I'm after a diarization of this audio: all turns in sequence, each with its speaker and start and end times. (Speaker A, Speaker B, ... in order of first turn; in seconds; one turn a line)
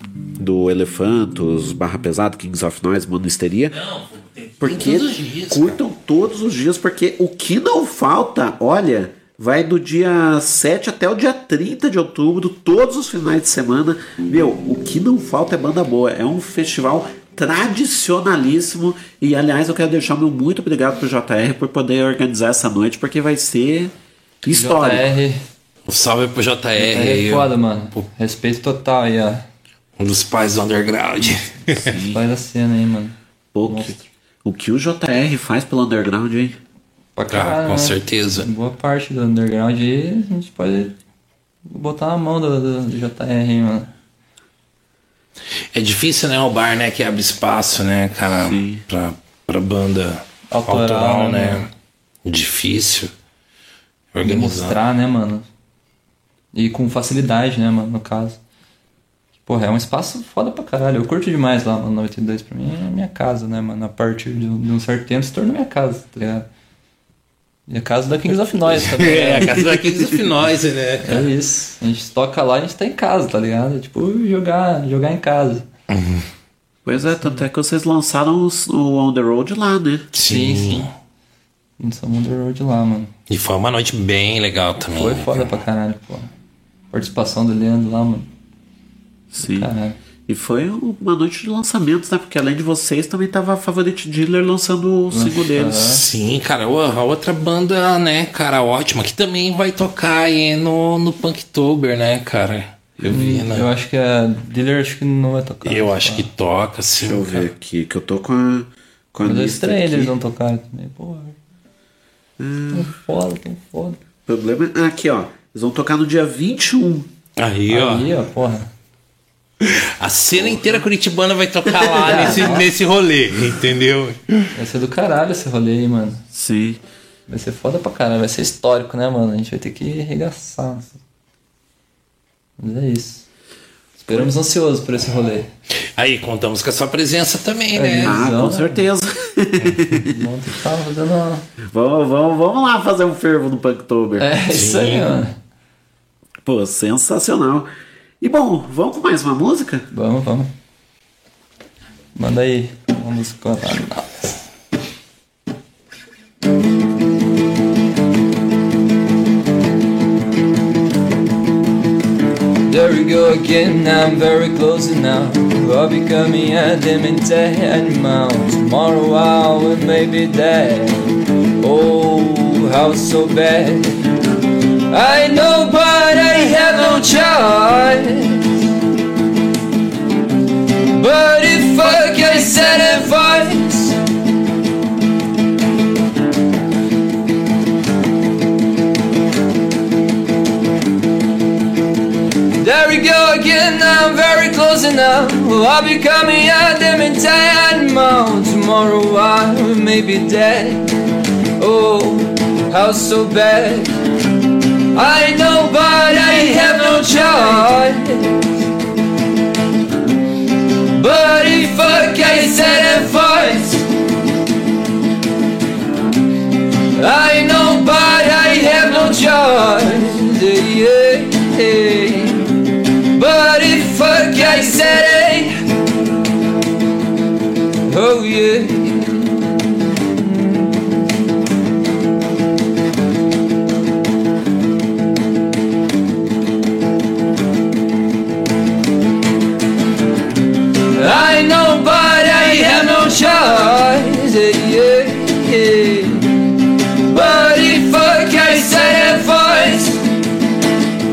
Speaker A: 0.4-3.7
Speaker B: 3.7-5.8
Speaker A: 4.6-23.9
Speaker A: 24.4-25.1
Speaker C: 24.5-25.4
Speaker B: 25.9-28.1
Speaker C: 26.8-29.4
Speaker B: 30.0-31.8
Speaker A: 31.7-32.2
Speaker C: 32.0-34.0
Speaker A: 33.5-36.6
Speaker C: 37.1-40.9
Speaker B: 37.3-38.5
Speaker C: 41.7-43.9
Speaker B: 45.7-51.7
Speaker A: 48.4-48.8
Speaker C: 50.5-51.6
Speaker B: 52.2-53.1
Speaker B: 54.1-54.8
Speaker C: 54.2-55.5
Speaker C: 56.5-58.4
Speaker C: 59.4-66.5
Speaker C: 67.7-69.6
Speaker B: 68.7-71.3
Speaker C: 71.0-75.6
Speaker B: 75.9-76.2
Speaker A: 76.8-80.1
Speaker C: 77.0-77.4
Speaker B: 80.1-80.9
Speaker C: 80.2-80.8
Speaker C: 81.8-83.1
Speaker B: 83.3-85.5
Speaker C: 84.8-86.3
Speaker C: 86.9-88.3
Speaker A: 89.3-89.7
Speaker C: 89.4-90.0
Speaker A: 90.2-95.8
Speaker C: 95.1-96.0
Speaker B: 95.8-103.7
Speaker C: 103.0-106.2
Speaker B: 105.6-107.5
Speaker A: 107.0-110.1
Speaker C: 109.2-111.3
Speaker A: 112.4-112.9
Speaker C: 112.7-114.0
Speaker A: 114.2-117.1
Speaker B: 117.4-118.1
Speaker C: 117.7-118.7
Speaker B: 119.6-124.5
Speaker A: 120.3-120.8
Speaker A: 121.7-122.5
Speaker C: 122.0-122.7
Speaker C: 124.5-126.2
Speaker A: 126.3-126.8
Speaker C: 127.3-131.0
Speaker C: 132.6-133.2
Speaker C: 134.0-135.5
Speaker B: 136.0-138.2
Speaker C: 137.7-138.8
Speaker A: 138.0-140.1
Speaker C: 140.0-141.4
Speaker A: 141.7-144.2
Speaker C: 144.2-145.3
Speaker B: 144.5-145.1
Speaker A: 146.4-147.7
Speaker A: 148.2-149.8
Speaker C: 149.9-150.5
Speaker C: 152.1-154.3
Speaker C: 162.7-174.0
Speaker C: 174.9-178.4
Speaker C: 180.9-184.0
Speaker C: 192.6-200.9
Speaker C: 201.6-203.9
Speaker C: 204.9-208.3
Speaker C: 210.9-213.8
Speaker C: 216.9-222.5
Speaker C: 223.1-225.5
Speaker C: 227.9-229.2
Speaker C: 240.9-246.3
Speaker C: 247.1-250.0